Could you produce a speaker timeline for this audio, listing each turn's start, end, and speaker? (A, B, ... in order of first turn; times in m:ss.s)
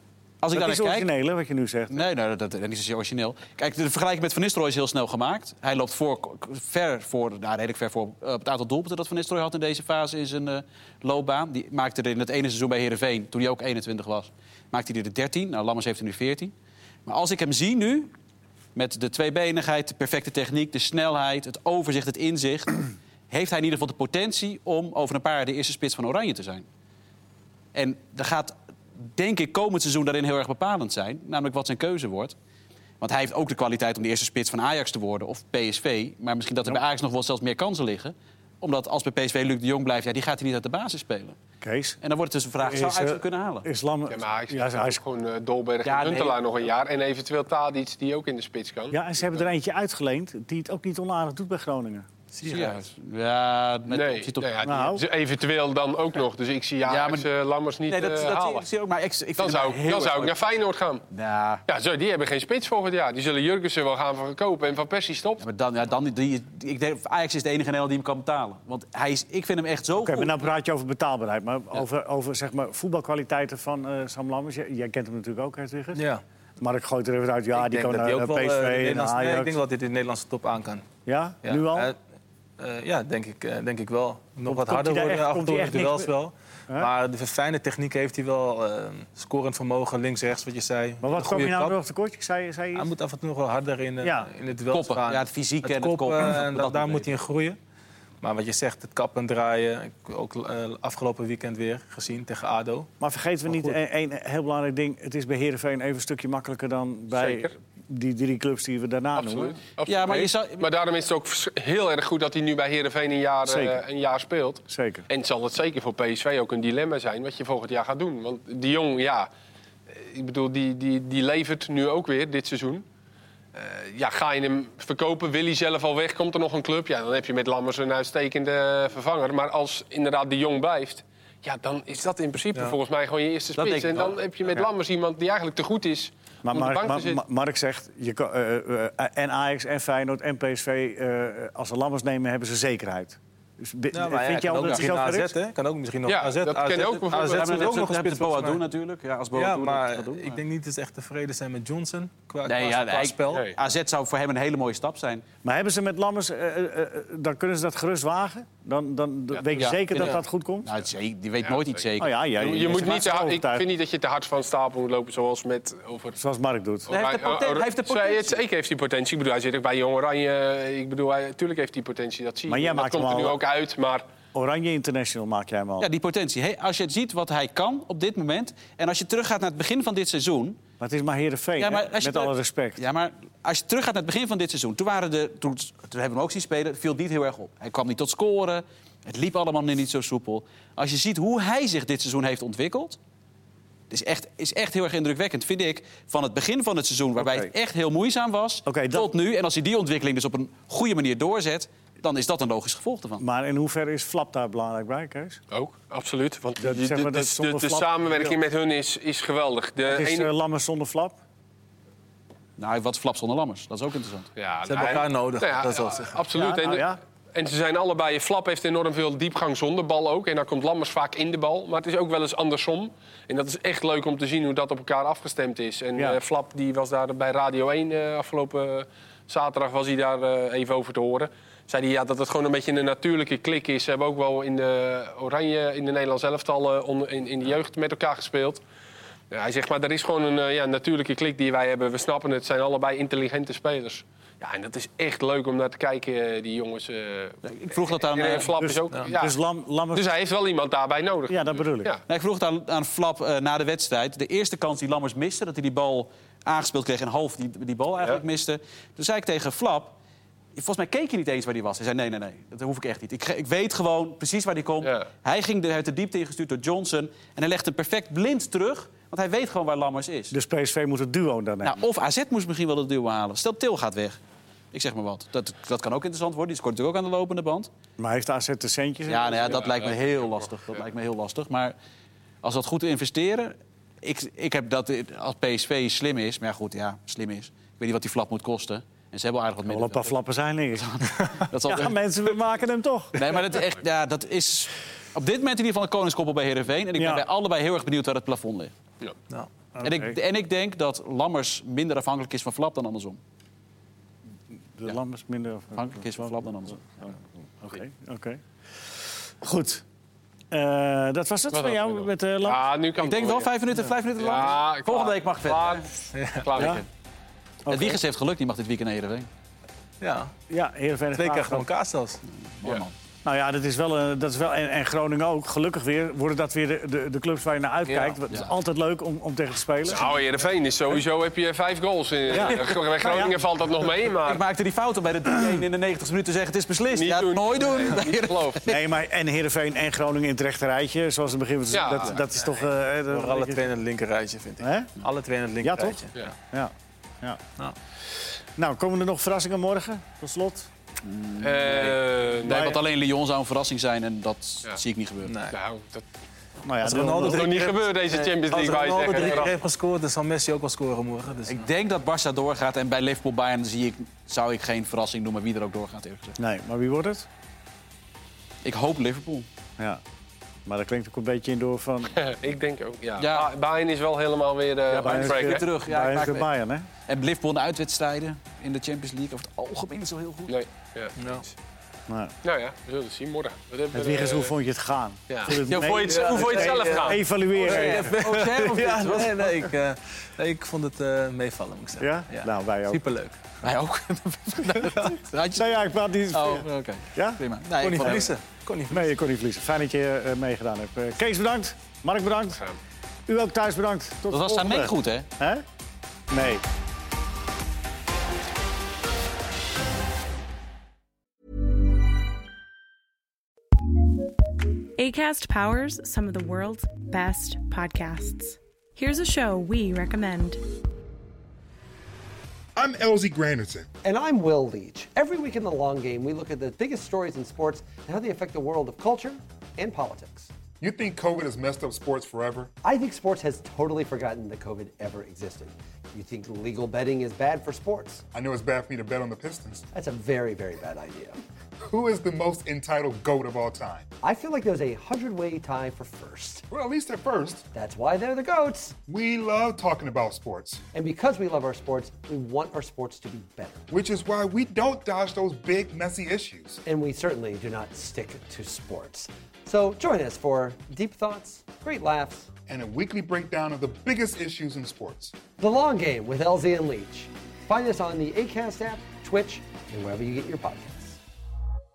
0:00.4-0:01.1 A
0:00.5-0:02.0 B
0:01.9-0:16.5 A
0:17.0-0:18.1 A
0:18.7-0:26.6 A
0:27.7-0:32.3 A
0:33.0-0:41.4 A
0:41.6-0:42.0 B
0:42.0-0:43.7 A
0:42.6-0:45.0 B
0:44.1-0:49.4 C
0:45.8-0:46.4 A
0:48.9-0:52.1 B
0:52.3-0:52.8 D
0:52.4-0:54.5 A
0:53.9-0:58.7 C
0:54.6-0:55.0 B
0:56.8-0:57.3 A
0:57.9-1:00.4 A
0:59.4-1:01.0 C
1:01.1-1:01.6 A
1:01.7-1:05.4 C
1:05.4-1:10.4 A
1:10.0-1:16.0 B
1:15.9-1:16.2 D
1:16.6-1:19.6 B
1:17.5-1:20.8 D
1:21.0-1:21.9 B
1:21.4-1:22.0 D
1:22.6-1:31.8 D
1:24.4-1:26.1 B
1:31.0-1:32.9 B
1:32.7-1:37.6 D
1:34.0-1:34.3 B
1:34.7-1:37.1 A
1:38.2-1:42.9 D
1:43.0-1:49.6 B
1:43.5-1:43.7 D
1:47.1-1:47.5 C
1:49.2-1:59.3 C
1:49.8-1:50.7 A
1:53.4-1:53.8 B
1:54.7-1:55.0 B
1:59.9-2:02.8 C
2:03.5-2:17.2 C
2:13.6-2:14.6 A
2:16.4-2:25.4 B
2:23.9-2:28.6 D
2:24.5-2:24.8 A
2:26.0-2:27.8 C
2:27.3-2:30.4 A
2:29.3-2:33.5 D
2:32.4-2:35.2 A
2:33.3-2:33.6 C
2:35.4-2:40.7 B
2:39.5-2:42.7 A
2:39.9-2:40.2 D
2:41.4-2:41.8 C
2:42.0-2:43.6 B
2:42.4-2:46.2 C
2:46.2-2:46.9 B
2:46.9-2:54.0 C
2:46.9-2:48.4 A
2:52.5-2:53.4 B
2:54.3-2:55.9 B
2:55.8-3:00.6 A
3:00.8-3:02.8 B
3:01.6-3:13.0 A
3:13.9-3:23.2 A
3:17.2-3:17.5 B
3:18.6-3:19.1 B
3:23.2-3:25.4 B
3:25.5-3:30.3 C
3:26.6-3:28.4 B
3:29.8-3:31.2 B
3:32.6-3:34.3 A
3:34.4-3:58.6 C
3:34.7-3:36.2 D
3:36.3-3:37.0 B
3:59.3-4:09.3 C
4:07.4-4:08.5 A
4:08.6-4:10.1 B
4:09.9-4:12.0 C
4:11.3-4:11.9 B
4:12.1-4:20.0 A
4:20.5-4:30.3 A
4:30.3-4:31.8 B
4:31.6-4:34.2 A
4:34.7-4:37.7 A
4:38.0-4:39.7 B
4:39.1-4:41.7 A
4:39.5-4:40.3 C
4:42.4-4:50.2 A
4:49.6-4:53.4 B
4:50.8-4:52.0 A
4:53.1-4:58.7 A
4:56.9-4:57.2 B
4:59.7-5:00.2 B
4:59.8-5:03.2 A
5:04.8-5:09.8 B
5:05.8-5:06.8 A
5:10.5-5:12.6 B
5:11.5-5:13.5 C
5:13.0-5:15.9 A
5:14.2-5:16.8 C
5:16.1-5:16.5 D
5:16.6-5:16.8 B
5:16.6-5:16.8 A
5:17.6-5:18.0 B
5:17.7-5:19.3 A
5:20.0-5:20.3 D
5:20.5-5:21.7 B
5:21.1-5:22.2 D
5:22.6-5:22.9 A
5:23.2-5:30.2 B
5:27.8-5:28.2 D
5:29.9-5:34.4 C
5:32.3-5:33.3 B
5:34.2-5:38.8 A
5:36.9-5:38.7 C
5:38.7-5:43.7 B
5:41.7-5:42.2 C
5:43.1-5:46.3 D
5:44.6-5:44.9 B
5:45.6-5:46.0 B
5:46.5-5:47.4 B
5:48.6-5:50.7 B
5:51.0-5:55.3 A
5:51.4-5:52.8 C
5:52.4-5:52.8 B
5:55.2-5:55.6 D
5:55.5-5:56.0 C
5:56.6-5:57.5 B
5:56.8-6:01.7 D
5:57.2-5:59.6 C
6:01.5-6:06.4 A
6:06.4-6:07.3 B
6:08.6-6:09.5 A
6:10.6-6:12.2 B
6:12.2-6:15.6 C
6:13.2-6:13.5 A
6:14.9-6:16.5 A
6:15.0-6:16.9 B
6:17.1-6:20.6 A
6:20.5-6:21.4 C
6:21.2-6:21.4 D
6:22.1-6:22.3 B
6:22.4-6:24.5 C
6:23.9-6:28.1 B
6:25.3-6:27.2 C
6:25.7-6:33.4 D
6:27.6-6:29.6 A
6:32.0-6:33.0 B
6:33.6-6:38.3 A
6:35.6-6:38.3 B
6:37.7-6:39.1 D
6:38.9-6:42.6 B
6:43.3-6:45.6 B
6:44.3-6:45.2 A
6:46.3-6:46.6 B
6:55.0-7:00.6 E
7:02.8-7:03.9 F
7:04.0-7:10.5 G
7:10.8-7:12.7 F
7:12.8-7:18.2 G
7:18.3-7:19.8 F
7:19.9-7:21.4 G
7:21.8-7:24.1 F
7:24.2-7:26.6 G
7:26.7-7:27.6 F
7:27.7-7:29.0 G
7:29.1-7:30.8 F
7:30.9-7:33.8 G
7:33.9-7:36.8 F
7:36.8-7:42.5 G
7:42.7-7:45.4 F
7:45.6-7:51.2 G